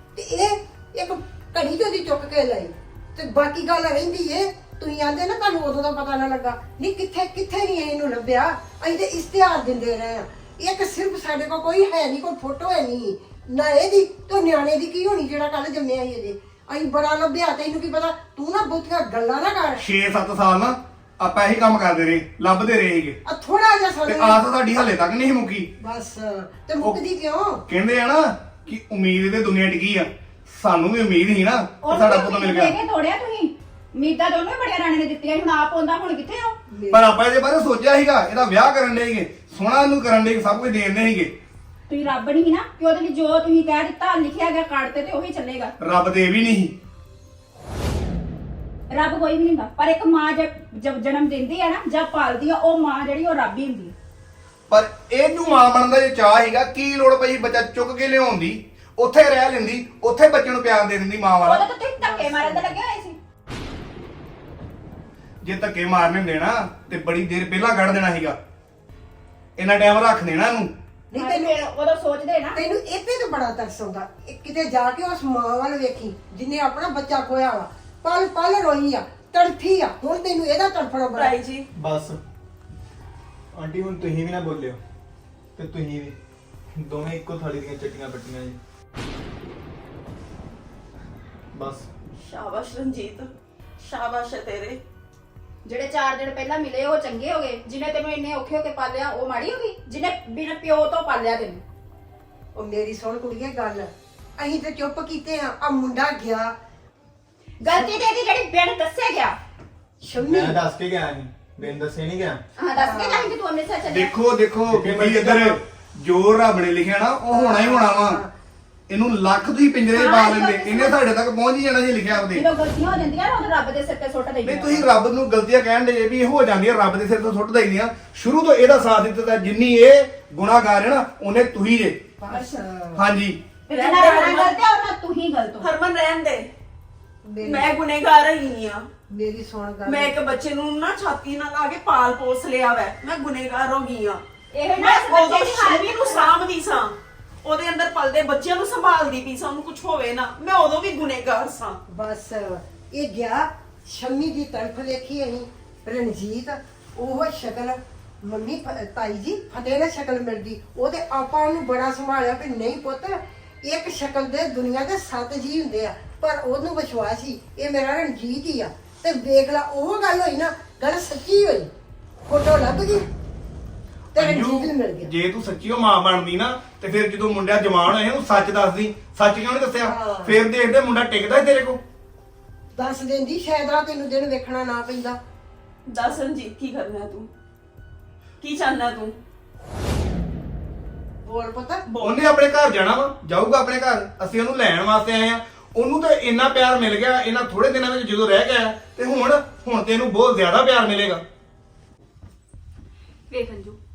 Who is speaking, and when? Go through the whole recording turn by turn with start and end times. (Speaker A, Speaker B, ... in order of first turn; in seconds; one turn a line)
Speaker A: 0.1-19.8
Speaker B: 19.8-23.2
Speaker A: 23.2-24.4
Speaker B: 24.1-25.7
Speaker A: 25.8-27.6
Speaker B: 27.7-32.7
Speaker C: 31.8-36.5
Speaker A: 36.7-37.1
Speaker B: 36.9-41.3
Speaker C: 41.9-45.7
Speaker B: 45.8-46.7
Speaker C: 48.9-53.9
Speaker B: 54.7-61.6
Speaker C: 61.4-63.2
Speaker A: 62.0-62.7
Speaker B: 65.4-68.4
Speaker B: 69.5-70.7
Speaker A: 71.1-71.6
Speaker C: 71.2-72.6
Speaker A: 72.5-81.3
Speaker D: 81.1-81.7
Speaker E: 81.7-82.2
Speaker E: 83.5-84.8
Speaker E: 85.5-86.2
Speaker E: 86.8-88.6
Speaker E: 91.5-91.9
Speaker D: 92.2-94.8
Speaker C: 95.6-101.6
Speaker A: 102.5-106.5
Speaker C: 107.6-109.4
Speaker A: 110.0-110.6
Speaker E: 110.2-112.4
Speaker C: 112.5-114.2
Speaker A: 112.8-113.3
Speaker B: 113.9-118.2
Speaker E: 114.7-115.4
Speaker A: 117.3-118.3
Speaker B: 118.9-122.4
Speaker C: 119.9-121.0
Speaker C: 122.3-124.9
Speaker B: 124.5-132.0
Speaker A: 132.2-133.0
Speaker C: 132.3-132.6
Speaker B: 132.9-133.4
Speaker D: 133.7-134.6
Speaker C: 133.7-135.7
Speaker D: 135.6-136.5
Speaker A: 137.2-137.7
Speaker D: 137.4-138.9
Speaker A: 139.1-140.2
Speaker D: 139.8-144.2
Speaker C: 144.5-146.3
Speaker D: 144.8-151.8
Speaker A: 151.9-171.7
Speaker A: 172.3-173.1
Speaker A: 174.1-175.1
Speaker B: 174.1-181.8
Speaker A: 179.8-180.4
Speaker A: 182.7-185.2
Speaker D: 185.9-187.3
Speaker D: 188.4-189.2
Speaker A: 191.2-191.8
Speaker D: 191.9-192.2
Speaker B: 192.0-201.2
Speaker C: 203.3-203.8